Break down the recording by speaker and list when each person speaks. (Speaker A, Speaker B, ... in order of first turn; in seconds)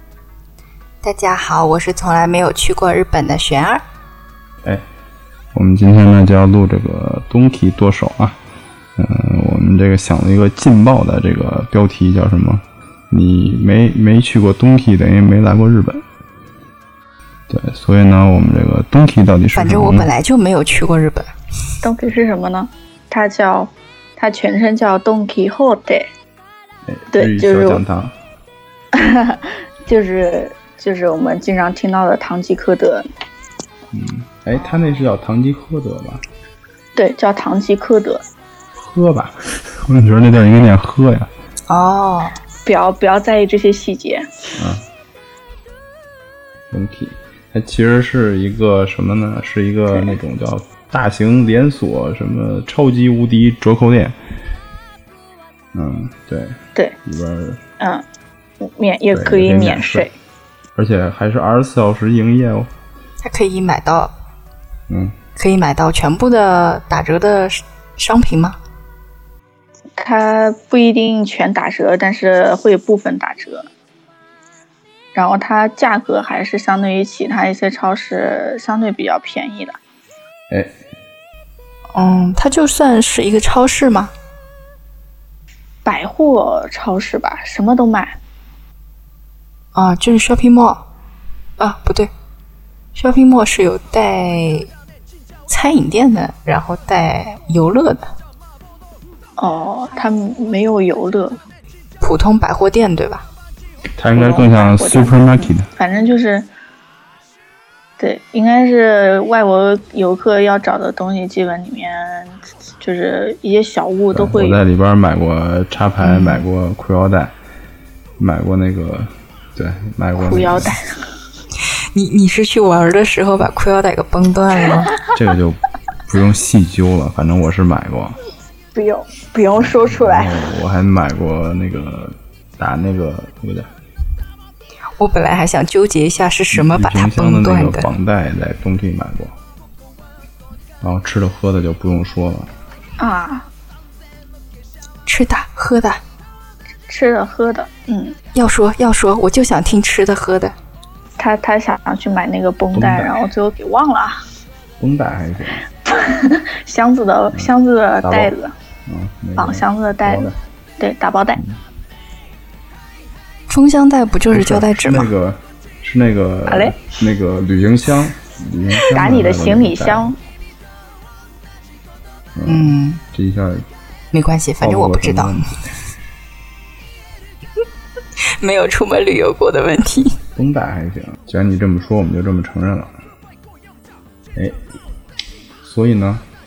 Speaker A: 1.0-3.8, 19.5-21.3, 41.7-42.4, 63.2-64.1, 65.4-68.6, 81.9-84.1, 89.8-90.8, 91.6-92.1, 93.0-94.7, 95.5-98.1, 102.0-103.2, 116.0-116.4, 121.9-125.0, 135.0-137.9, 145.1-146.0, 148.3-150.5, 163.5-165.1, 172.4-173.0, 174.1-175.5, 178.2-180.2
Speaker B: 5.5-8.4, 9.0-16.0, 17.5-20.1, 26.9-28.1, 33.9-36.2, 38.8-41.3, 44.6-44.9, 46.7-54.2, 55.7-57.6, 59.1-60.1, 60.8-62.7, 64.9-65.2, 104.0-105.7, 114.1-117.3, 118.2-120.7, 125.1-128.2, 129.6-133.7, 136.5-139.3, 140.8-142.5, 152.7-153.2, 154.8-155.7, 158.0-158.3, 158.9-160.3, 164.3-170.2, 172.4-173.7, 174.6-175.7, 180.4-183.0, 185.6-186.2
Speaker C: 21.8-26.1, 27.1-27.8, 28.9-33.1, 37.0-38.2, 42.6-44.4, 57.8-58.0, 58.6-60.1, 70.0-73.7, 75.1-79.8, 85.8-88.2, 99.4-101.4, 104.1-106.5, 108.0-114.6, 120.2-121.0, 128.8-130.3, 143.0-143.5, 146.9-148.2, 151.2-154.2, 155.9-158.6, 159.4-161.4, 166.5-166.8, 168.9-170.2